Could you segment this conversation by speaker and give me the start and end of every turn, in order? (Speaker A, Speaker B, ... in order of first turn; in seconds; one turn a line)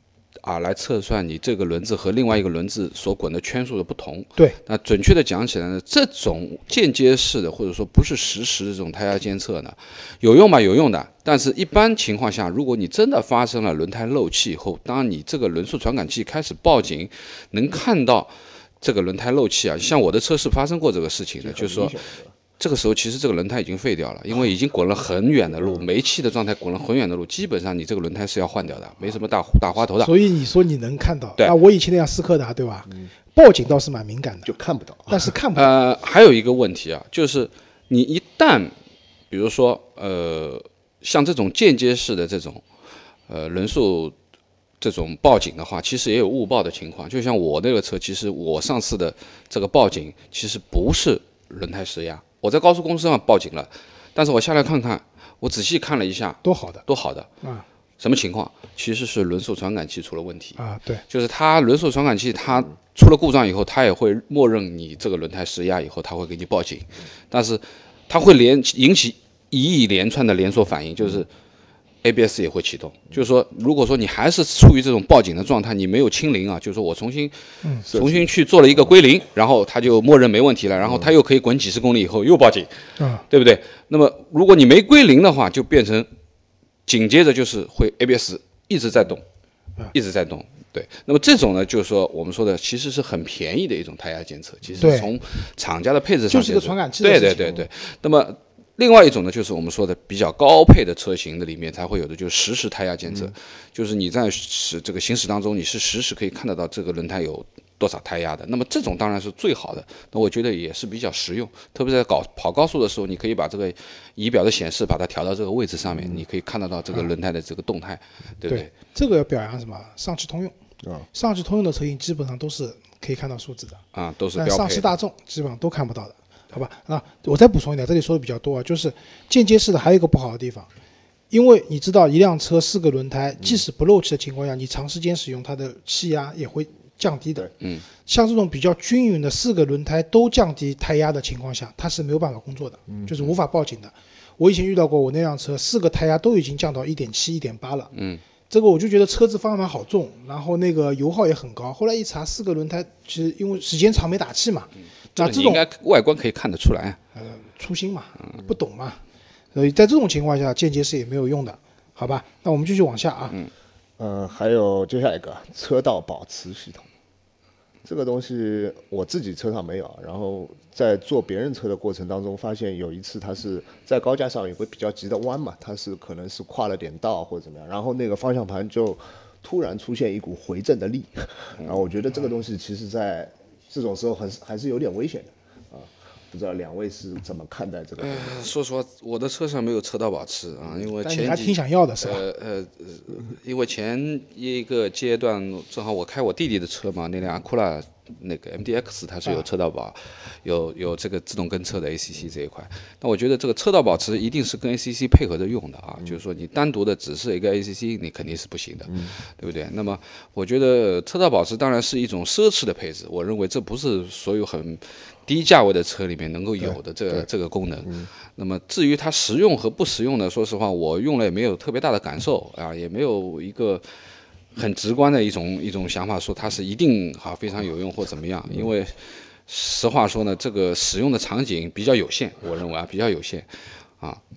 Speaker A: 0.4-21.9
Speaker B: 21.4-22.3
Speaker A: 22.6-30.1
Speaker C: 30.0-34.5
Speaker B: 34.4-35.2
Speaker C: 35.1-35.7
Speaker A: 35.5-38.7
Speaker A: 39.3-42.6
Speaker A: 43.3-44.1
Speaker A: 44.8-57.3
Speaker C: 56.4-56.8
Speaker A: 58.0-71.3
Speaker C: 60.6-61.0
Speaker A: 72.0-77.3
Speaker B: 77.9-78.3
Speaker A: 77.9-82.7
Speaker C: 83.0-83.2
Speaker A: 83.3-86.1
Speaker A: 86.9-89.2
Speaker A: 89.9-118.7
Speaker C: 94.8-95.1
Speaker C: 96.3-97.6
Speaker C: 118.5-120.5
Speaker C: 121.1-123.8
Speaker A: 123.9-124.9
Speaker C: 124.3-130.7
Speaker C: 131.3-137.5
Speaker C: 138.1-147.9
Speaker A: 147.9-148.2
Speaker C: 148.5-155.6
Speaker A: 155.2-157.0
Speaker C: 157.2-159.0
Speaker C: 159.5-163.3
Speaker B: 164.0-166.9
Speaker B: 167.8-188.4
Speaker A: 188.0-223.8
Speaker C: 191.0-192.2
Speaker B: 216.7-217.2
Speaker A: 224.5-234.2